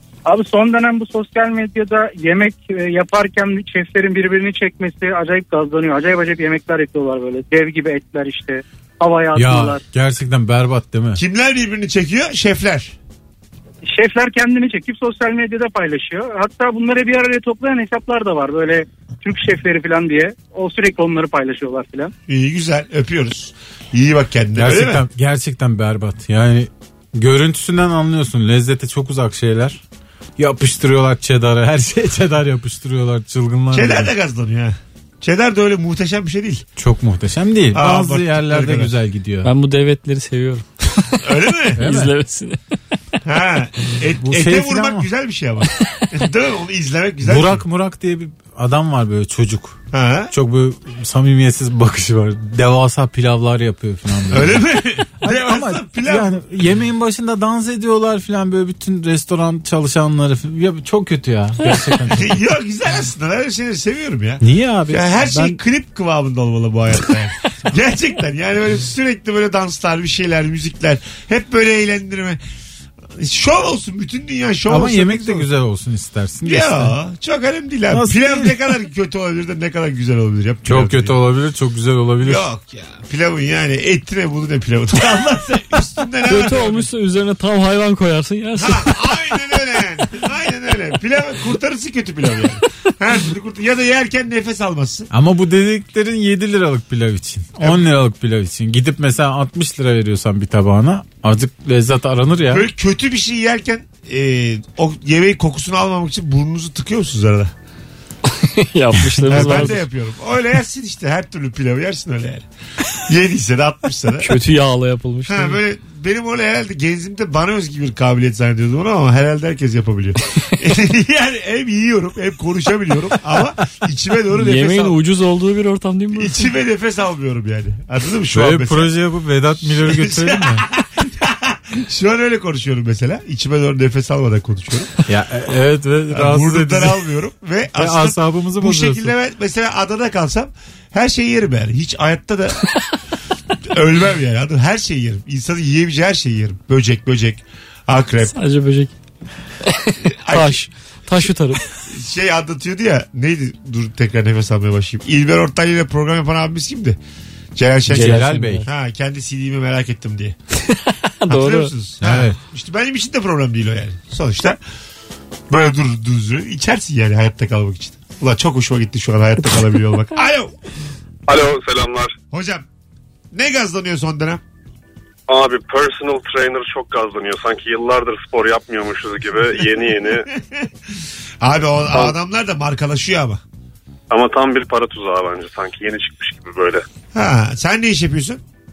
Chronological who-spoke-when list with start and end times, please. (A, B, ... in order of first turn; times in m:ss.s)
0:00.2-0:09.8 A
0:09.3-0:11.2 B
0:11.2-0:13.0 C
0:13.8-0:22.1 A
0:22.3-0:25.0 C
0:24.6-0:29.8 B
0:30.4-0:34.1 B
0:33.7-0:36.6 C
0:36.8-0:39.5 B
0:37.7-0:38.9 C
0:39.4-0:41.2 D
0:41.2-0:41.8 C
0:41.7-0:42.6 D
0:41.8-0:42.1 B
0:43.2-0:47.6 C
0:44.2-0:45.1 B
0:47.2-0:49.8 B
0:49.9-0:50.3 C
0:50.3-1:02.4 B
0:54.3-0:56.4 C
1:02.1-1:12.4 C
1:04.4-1:05.6 B
1:13.2-1:15.5 C
1:14.7-1:17.0 B
1:16.4-1:21.2 C
1:17.9-1:18.6 B
1:20.6-1:22.5 B
1:22.2-1:26.8 C
1:26.2-1:29.2 D
1:28.6-1:35.1 C
1:35.1-1:42.7 B
1:42.5-1:47.5 C
1:48.3-1:49.8 D
1:49.2-1:49.8 B
1:49.2-1:54.3 C
1:54.2-1:55.6 D
1:55.3-2:05.0 C
2:04.3-2:06.5 D
2:06.2-2:08.9 C
2:08.3-2:10.7 B
2:09.7-2:14.9 C
2:15.1-2:17.1 B
2:16.1-2:22.7 C
2:17.7-2:19.1 B
2:23.6-2:28.3 C
2:28.3-2:28.9 D
2:29.7-2:31.7 D
2:30.2-2:30.6 C
2:31.9-2:37.0 C
2:37.6-2:40.4 C
2:37.9-2:38.7 B
2:37.9-2:38.7 D
2:40.8-2:41.7 D
2:41.3-2:44.6 C
2:42.0-2:42.4 B
2:45.5-2:50.5 C
2:51.3-2:52.2 E
2:52.3-2:52.6 C
2:53.3-2:54.4 C
2:55.3-3:00.3 E
3:01.4-3:03.4 C
3:04.1-3:06.8 E
3:07.1-3:08.4 C